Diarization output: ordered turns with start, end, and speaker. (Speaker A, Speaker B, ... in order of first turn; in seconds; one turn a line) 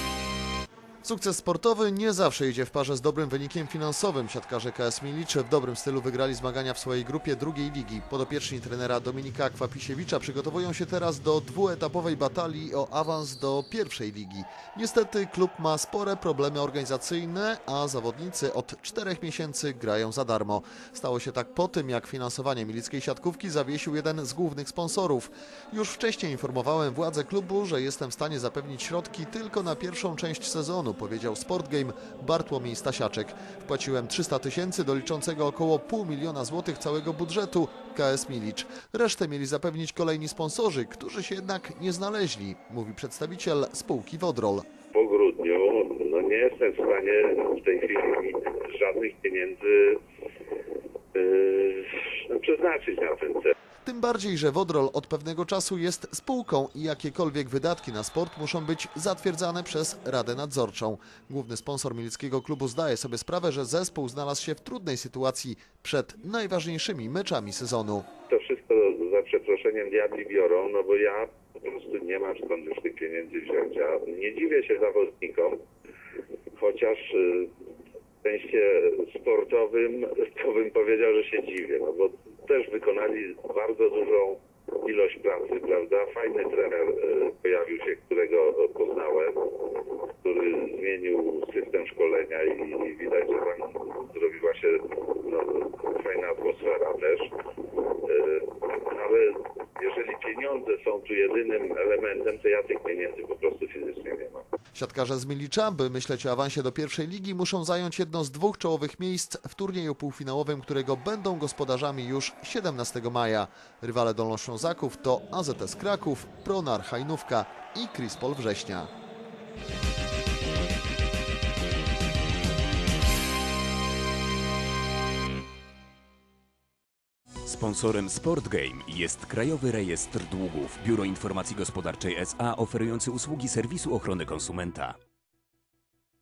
Speaker A: 1.0-44.7
Speaker B: 44.9-49.6
Speaker B: 51.2-51.8
Speaker B: 52.3-53.5
Speaker A: 53.8-68.1
Speaker B: 68.3-75.5
Speaker B: 76.6-77.0
Speaker B: 78.2-78.6
Speaker B: 79.2-84.3
Speaker B: 84.9-89.3
Speaker B: 90.2-94.7
Speaker B: 95.2-97.2
Speaker B: 99.8-104.4
Speaker A: 104.7-118.9
Speaker C: 127.4-135.0